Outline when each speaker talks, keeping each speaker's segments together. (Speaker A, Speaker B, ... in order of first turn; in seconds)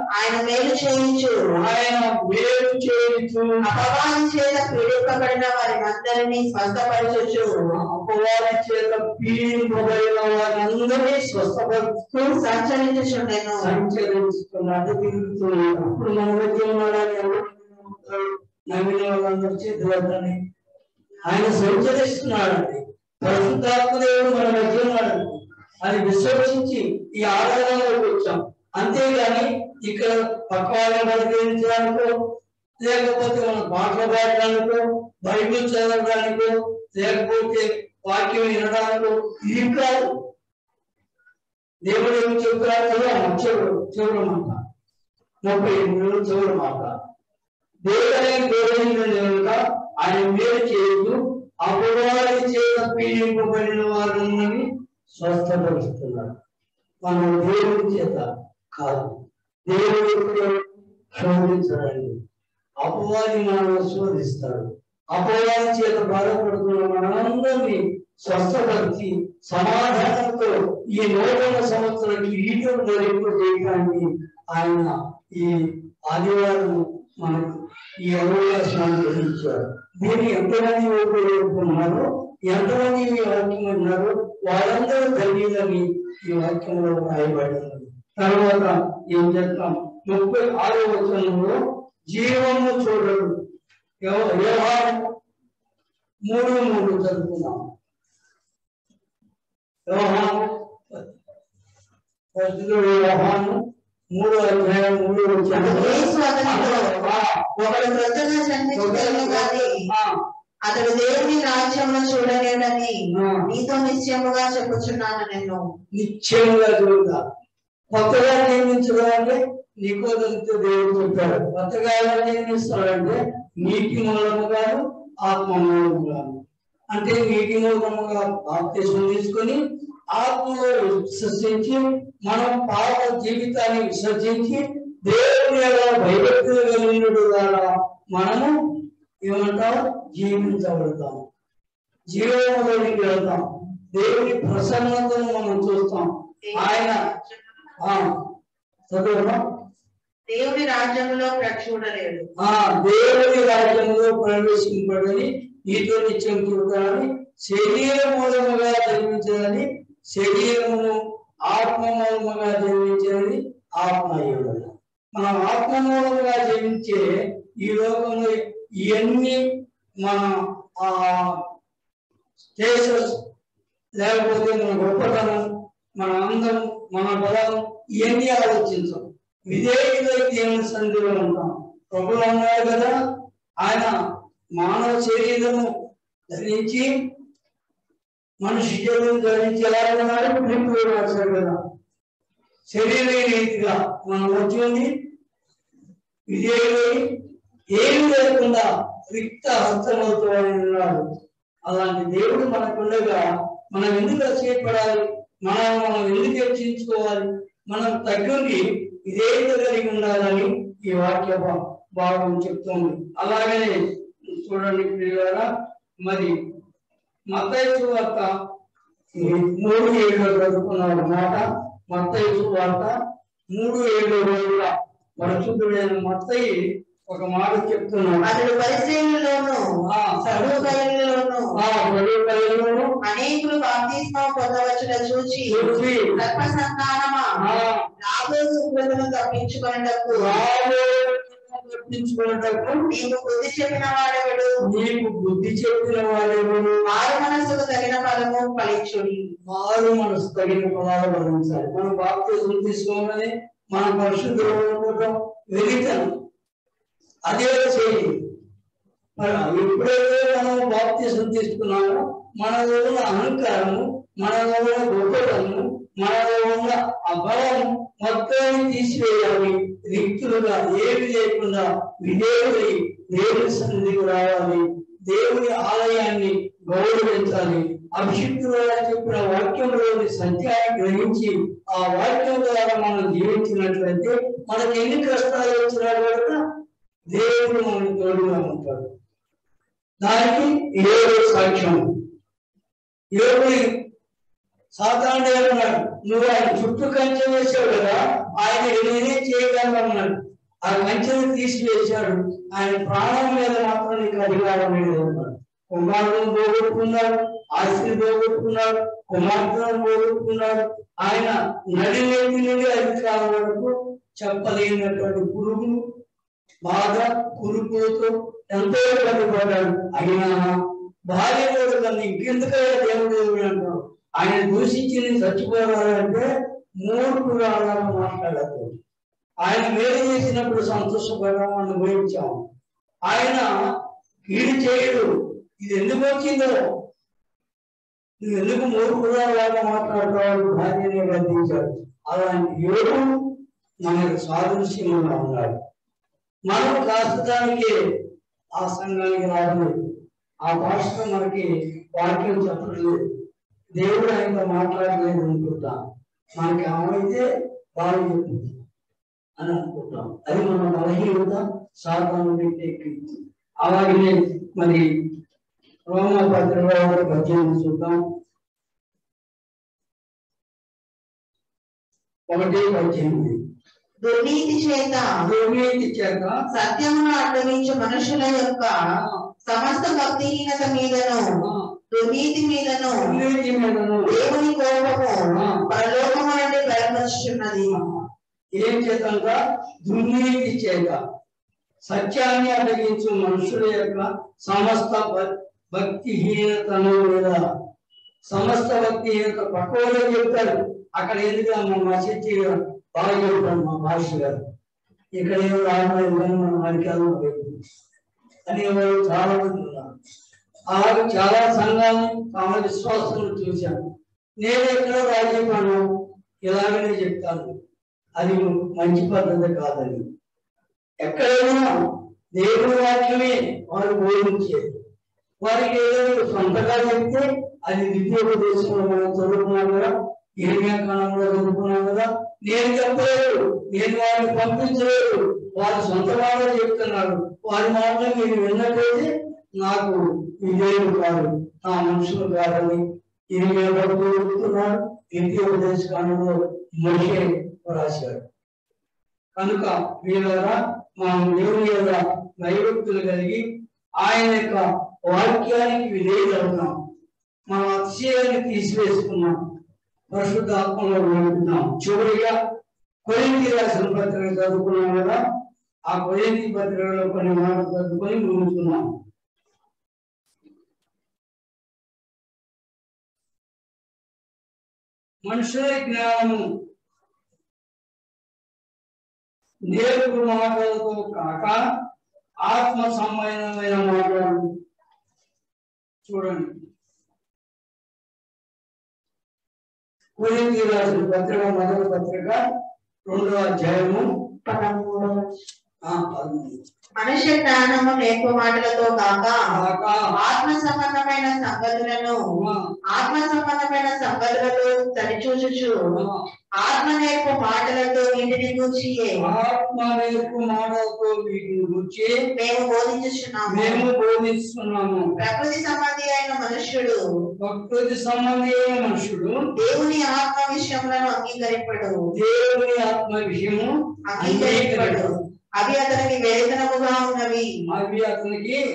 Speaker A: 0.2-1.4, 3.6-7.5, 12.4-13.7, 105.5-109.7, 110.7-112.9, 113.5-115.6, 146.4-147.8, 150.3-152.3, 228.2-229.6, 230.2-231.6, 233.0-237.3, 238.0-240.4, 242.9-244.5, 246.9-249.2, 374.0-375.1, 376.5-378.7, 379.4-381.2, 381.9-383.2, 384.1-387.8, 494.4-495.2, 497.0-499.4, 500.2-502.2, 502.9-505.7, 506.6-509.2, 512.4-513.9, 515.2-517.0, 519.6-522.0, 524.1-527.5
Speaker B: 1.5-3.6, 7.7-12.4, 13.6-20.4, 21.2-32.1, 32.8-40.1, 41.9-44.6, 45.4-46.9, 47.8-56.3, 57.0-62.1, 62.8-91.6, 92.1-93.3, 94.0-95.1, 96.2-97.6, 99.9-101.0, 102.3-103.6, 104.1-107.8, 108.7-110.2, 113.1-113.4, 115.9-117.2, 117.9-126.4, 126.9-129.6, 130.1-138.5, 139.2-141.2, 142.1-147.0, 147.8-148.2, 148.9-149.4, 152.4-167.1, 167.6-169.4, 170.0-171.4, 172.6-173.2, 174.0-175.5, 176.0-182.9, 183.6-183.9, 184.6-185.7, 186.3-186.9, 188.4-191.6, 192.7-194.9, 196.3-197.0, 197.7-201.1, 201.7-213.8, 214.3-215.5, 216.0-216.3, 217.3-218.3, 219.1-222.9, 223.5-226.5, 227.1-228.3, 229.8-230.7, 231.6-232.9, 235.5-236.1, 237.4-237.8, 240.1-242.9, 244.7-246.8, 249.5-256.1, 257.3-258.1, 259.2-286.4, 287.1-288.9, 290.0-291.8, 293.1-293.7, 294.7-315.8, 316.6-320.6, 321.1-326.2, 326.8-328.8, 329.4-332.4, 333.1-333.5, 334.3-335.1, 335.6-336.6, 338.2-343.1, 343.8-345.6, 346.5-347.7, 348.6-353.0, 353.8-355.8, 356.4-357.2, 357.8-358.6, 359.4-364.8, 365.9-368.0, 372.3-373.4, 375.2-376.4, 382.9-384.1, 385.4-385.6, 387.7-388.0, 388.6-391.0, 391.8-397.4, 398.3-404.4, 405.2-407.6, 408.5-409.9, 410.7-413.9, 414.4-415.8, 416.5-417.5, 418.2-420.0, 421.0-421.7, 422.4-424.6, 425.4-442.8, 443.3-448.2, 449.4-453.4, 454.0-456.8, 457.5-459.4, 460.1-462.4, 463.1-465.2, 465.9-468.9, 475.2-476.4, 479.7-481.6, 482.4-484.5, 486.0-486.5, 490.2-492.4, 493.1-494.1, 495.9-496.6, 499.6-500.0, 502.4-502.7, 506.0-506.2, 509.2-512.1, 513.5-515.1, 517.4-519.4, 522.1-525.1, 527.7-528.6